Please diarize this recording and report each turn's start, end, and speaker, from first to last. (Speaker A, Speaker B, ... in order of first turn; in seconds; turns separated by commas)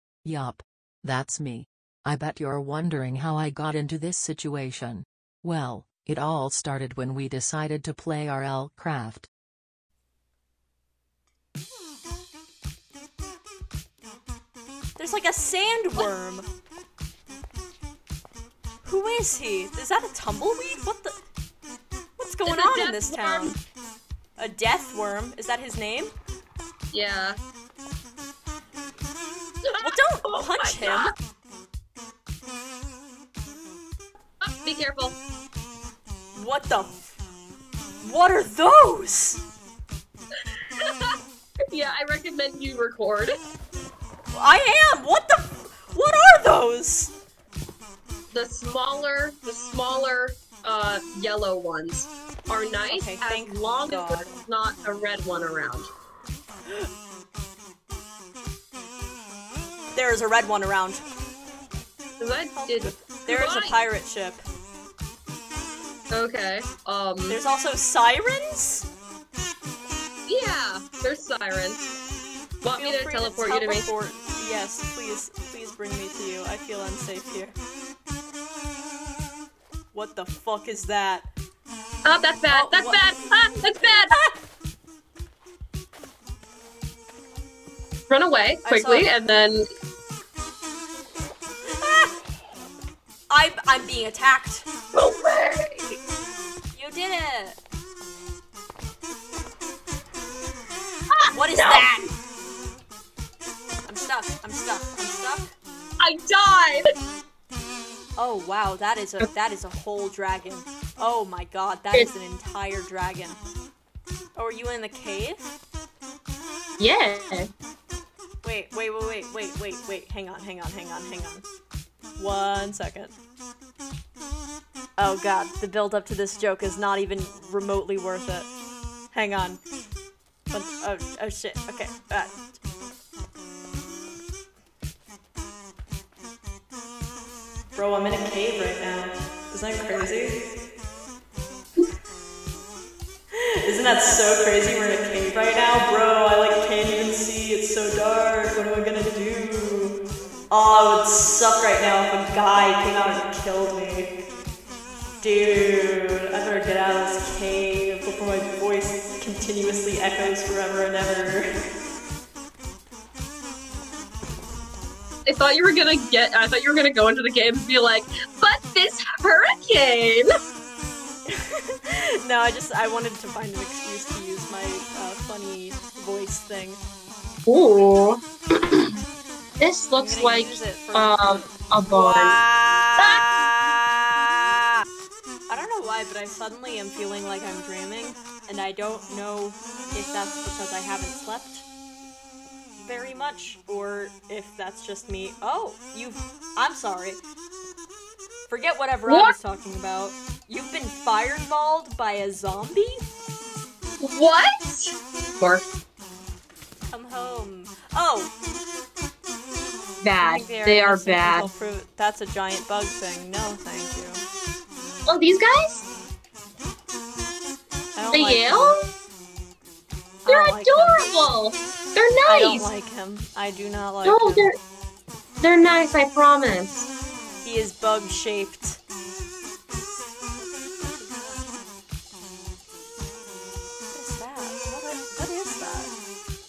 Speaker A: 0.2-9.3, Speaker B: 15.0-16.5, Speaker B: 18.8-21.1, Speaker B: 22.2-23.6, Speaker C: 22.4-23.5, Speaker B: 24.4-26.1, Speaker C: 26.9-27.4, Speaker C: 29.6-31.1, Speaker B: 29.8-31.1, Speaker C: 34.6-35.2, Speaker B: 36.3-37.1, Speaker B: 38.0-39.4, Speaker C: 41.7-43.3, Speaker B: 44.3-47.1, Speaker C: 48.3-55.9, Speaker B: 52.9-54.4, Speaker B: 59.9-61.0, Speaker C: 62.2-63.8, Speaker B: 62.5-64.4, Speaker C: 66.1-67.4, Speaker B: 67.3-68.9, Speaker C: 70.3-71.9, Speaker C: 72.6-73.9, Speaker B: 72.7-77.5, Speaker B: 79.9-81.3, Speaker C: 82.0-84.1, Speaker B: 82.5-83.1, Speaker B: 83.8-84.3, Speaker C: 88.1-89.6, Speaker B: 88.7-89.1, Speaker B: 91.8-92.1, Speaker B: 93.3-94.7, Speaker C: 94.9-95.9, Speaker B: 96.7-97.6, Speaker C: 101.1-101.9, Speaker B: 101.3-102.1, Speaker B: 103.9-105.5, Speaker C: 106.0-106.9, Speaker B: 108.2-113.4, Speaker B: 114.4-115.4, Speaker C: 116.8-117.5, Speaker B: 118.4-121.4, Speaker B: 122.2-123.2, Speaker B: 125.0-128.5, Speaker B: 129.1-129.6, Speaker B: 130.5-132.3, Speaker B: 137.7-140.3, Speaker B: 143.7-150.0, Speaker B: 150.5-154.1, Speaker B: 155.2-161.5, Speaker C: 165.2-170.3, Speaker B: 171.3-176.8, Speaker C: 177.5-178.2, Speaker C: 179.6-182.4, Speaker B: 180.0-183.0, Speaker C: 183.0-183.2, Speaker B: 185.5-191.7, Speaker B: 192.8-197.2, Speaker B: 198.5-203.0, Speaker C: 199.1-199.3, Speaker C: 204.0-205.6, Speaker B: 206.9-208.3, Speaker C: 210.0-211.5, Speaker B: 210.2-214.2, Speaker C: 215.1-215.8, Speaker B: 217.9-218.8, Speaker C: 218.1-218.8, Speaker B: 220.2-221.0, Speaker C: 220.3-222.7, Speaker B: 222.2-224.5, Speaker C: 224.0-224.6, Speaker C: 225.4-226.9, Speaker B: 227.4-228.8, Speaker B: 230.8-231.5, Speaker B: 233.9-235.9